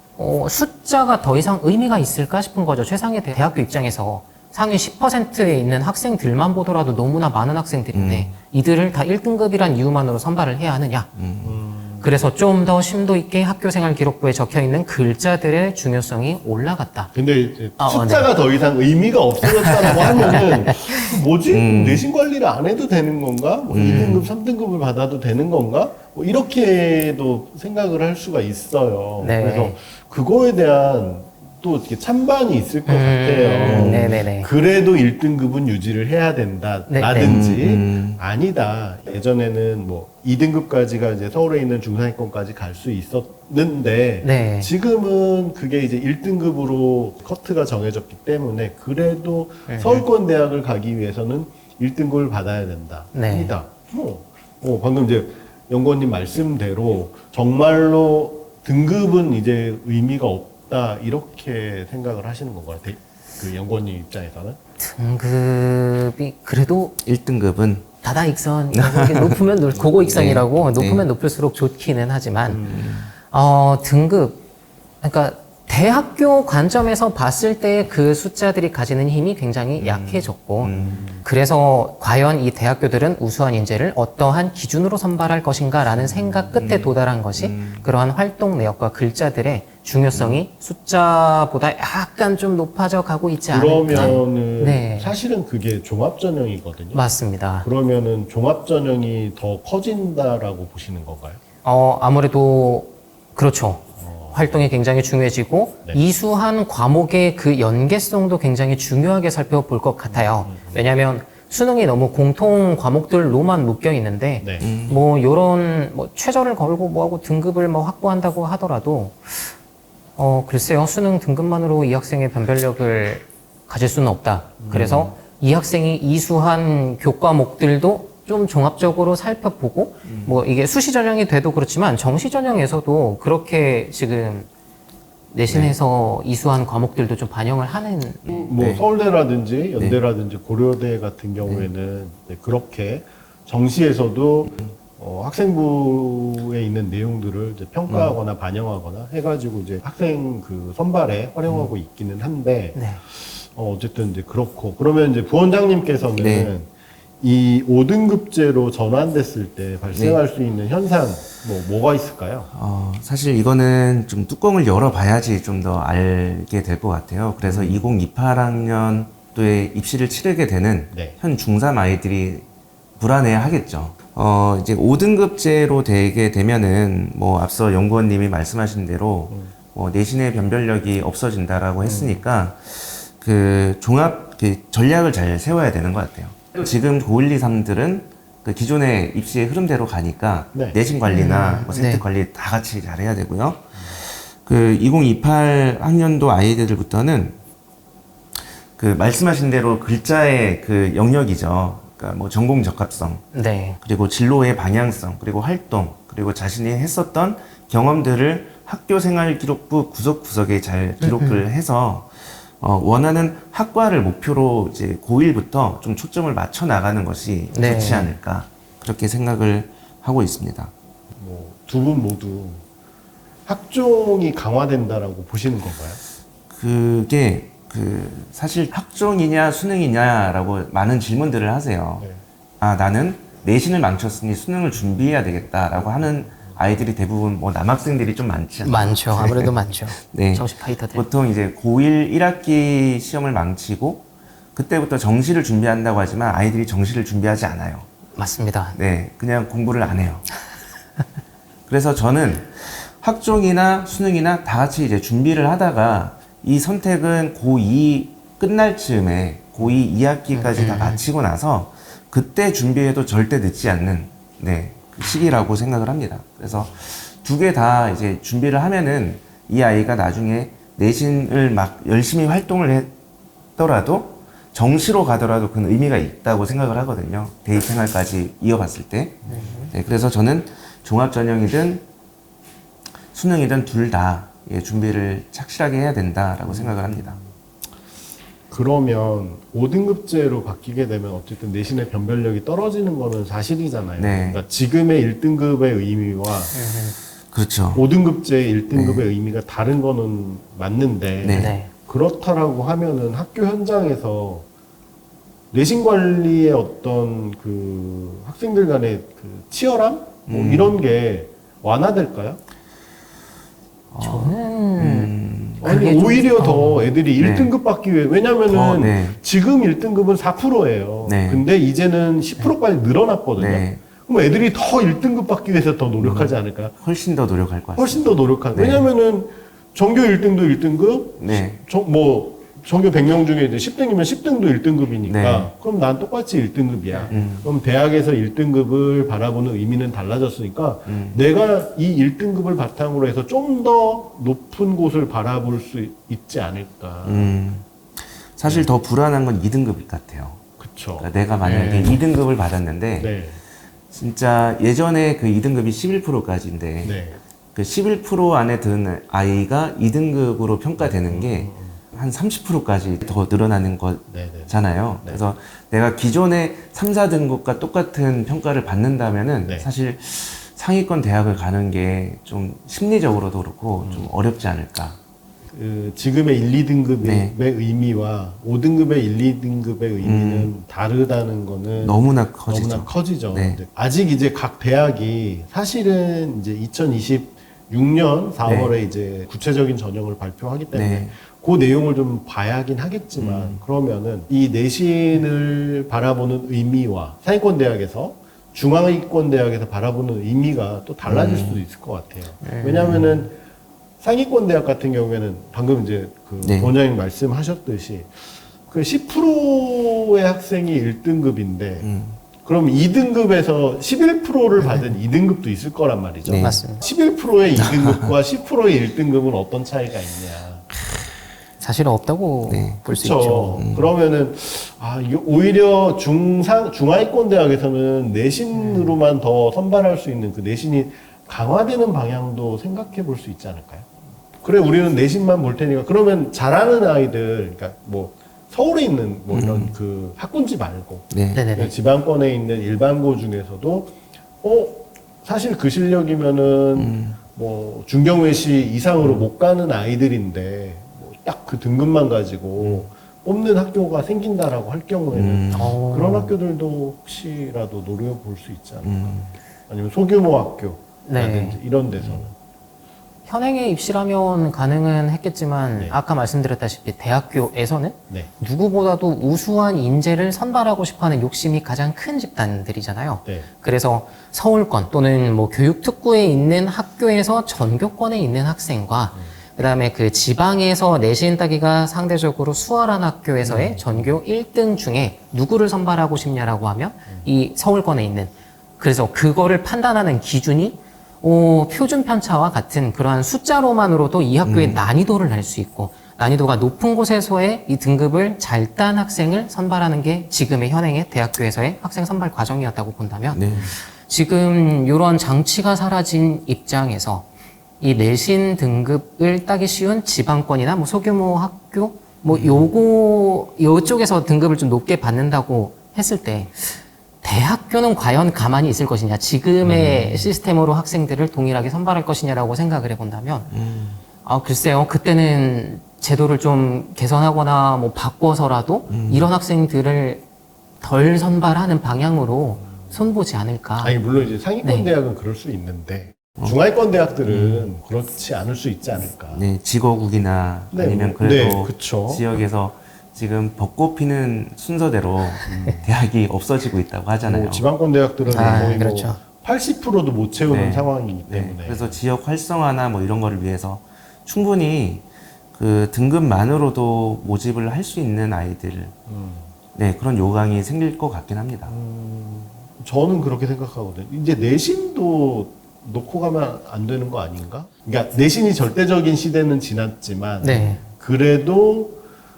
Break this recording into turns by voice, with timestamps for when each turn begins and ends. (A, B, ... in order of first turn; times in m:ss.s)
0:00.2-0:11.1 A
0:07.9-0:08.3 B
0:11.2-0:11.6 B
0:11.4-0:12.1 C
0:12.0-0:17.1 A
0:17.1-1:04.6 C
0:17.8-0:18.3 A
0:19.9-0:20.6 A
0:19.9-0:20.4 B
0:21.5-0:22.1 B
0:23.7-0:24.3 B
0:29.2-0:29.8 A
0:32.8-0:34.5 A
0:33.6-0:34.2 B
0:36.9-0:37.4 A
0:37.2-0:38.2 B
0:44.2-0:44.7 A
0:49.7-0:50.0 A
0:53.1-0:53.5 A
1:04.8-1:07.0 A
1:07.0-1:07.9 B
1:08.0-1:12.6 A
1:08.7-1:09.4 B
1:10.1-1:11.1 B
1:12.4-1:12.9 C
1:12.7-1:13.1 B
1:13.3-1:14.4 A
1:15.0-1:35.1 A
1:19.8-1:21.0 B
1:20.6-1:21.2 C
1:26.0-1:26.6 C
1:26.6-1:27.9 B
1:30.1-1:30.4 B
1:33.5-1:37.0 C
1:33.9-1:34.2 B
1:36.9-1:37.7 A
1:37.6-1:41.4 C
1:41.6-1:59.5 A
1:44.0-1:44.6 C
1:50.1-1:50.9 C
1:54.4-1:54.7 C
1:54.6-1:55.0 B
2:00.2-2:14.5 A
2:04.6-2:05.1 C
2:04.7-2:05.0 B
2:10.1-2:10.4 B
2:15.3-2:18.5 A
2:18.3-2:36.7 C
2:18.6-2:18.8 B
2:27.9-2:28.2 B
2:32.7-2:33.0 A
2:36.2-2:36.5 B
2:37.2-2:42.5 C
2:39.9-2:40.2 B
2:42.5-2:52.4 B
2:47.4-2:47.8 C
2:53.0-3:17.4 B
3:01.8-3:02.2 C
3:11.1-3:12.0 A
3:18.8-3:23.2 B
3:23.3-3:23.8 A
3:23.8-3:40.7 B
3:31.0-3:31.4 A
3:37.5-3:38.1 A
3:41.2-3:42.6 C
3:43.5-3:46.0 C
3:46.5-3:52.0 B
3:52.6-4:07.9 B
3:58.6-4:01.0 A
4:08.2-4:08.8 A
4:08.7-4:10.2 B
4:11.7-4:32.9 B
4:20.3-4:21.0 A
4:33.6-4:41.8 B
4:39.2-4:39.6 C
4:39.3-4:39.7 A
4:43.1-4:47.2 B
4:46.5-4:47.3 C
4:48.5-4:56.5 C
4:54.0-4:54.4 B
4:56.5-4:57.0 A
4:57.3-4:57.8 B
4:57.7-5:04.4 C
4:58.7-4:59.0 B
5:01.2-5:01.6 B
5:01.3-5:01.7 A
5:05.5-5:12.4 C
5:10.3-5:10.8 B
5:13.9-5:15.9 B
5:14.0-5:16.9 A
5:15.6-5:26.7 C
5:17.2-5:17.5 B
5:18.5-5:19.2 B
5:21.0-5:21.4 B
5:23.4-5:23.8 B
5:26.0-5:28.9 B
5:27.8-5:47.3 C
5:31.2-5:31.6 B
5:35.1-5:35.5 B
5:37.1-5:37.5 B
5:40.9-5:41.2 B
5:47.0-5:50.4 B
5:48.4-5:48.7 C
5:50.6-5:51.1 C
5:51.0-5:53.1 B
5:51.4-5:52.0 A
5:53.0-5:53.4 C
5:53.9-5:57.0 B
5:56.8-5:57.2 C
5:57.5-6:15.0 B
6:00.8-6:01.8 C
6:04.1-6:05.2 C
6:13.8-6:14.1 C
6:15.5-6:43.3 C
6:17.0-6:17.3 B
6:20.0-6:20.5 B
6:21.8-6:23.6 B
6:28.4-6:28.7 B
6:30.7-6:31.1 B
6:33.2-6:33.6 B
6:41.0-6:41.6 B
6:42.4-6:43.0 A
6:44.0-6:48.1 C
6:46.4-6:46.7 B
6:48.7-6:51.9 C
6:51.8-6:52.2 B
6:52.4-7:00.7 C
6:54.6-6:54.9 A
6:56.2-6:56.6 B
6:56.4-6:56.8 A
6:57.6-6:58.1 B
7:01.6-7:03.6 A
7:02.5-7:02.8 B
7:02.9-7:13.9 C
7:03.6-7:03.9 B
7:08.5-7:09.0 A
7:14.4-7:42.3 C
7:19.3-7:19.8 B
7:21.1-7:21.4 B
7:21.3-7:21.7 A
7:26.7-7:27.2 B
7:32.6-7:32.9 B
7:35.1-7:35.8 B
7:35.5-7:36.3 A
7:38.8-7:39.3 B
7:41.0-7:41.6 A
7:43.2-8:27.3 A
8:03.4-8:04.0 C
8:14.4-8:14.8 B
8:23.3-8:23.7 B
8:27.8-8:43.5 A
8:32.3-8:32.7 B
8:39.6-8:40.3 B
8:43.5-8:44.0 B
8:44.2-8:50.2 A
8:48.9-8:49.3 B
8:50.8-8:53.9 A
8:53.8-8:59.5 C
8:54.6-8:54.9 A
8:57.2-8:57.7 B
8:59.3-9:07.6 B
9:00.7-9:02.2 C
9:05.4-9:05.9 C
9:07.2-9:12.0 C
9:08.3-9:08.7 B
9:08.3-9:09.2 A
9:10.5-9:18.9 B
9:19.1-9:19.5 C
9:19.7-9:21.7 B
9:21.7-9:32.0 C
9:30.4-9:30.8 A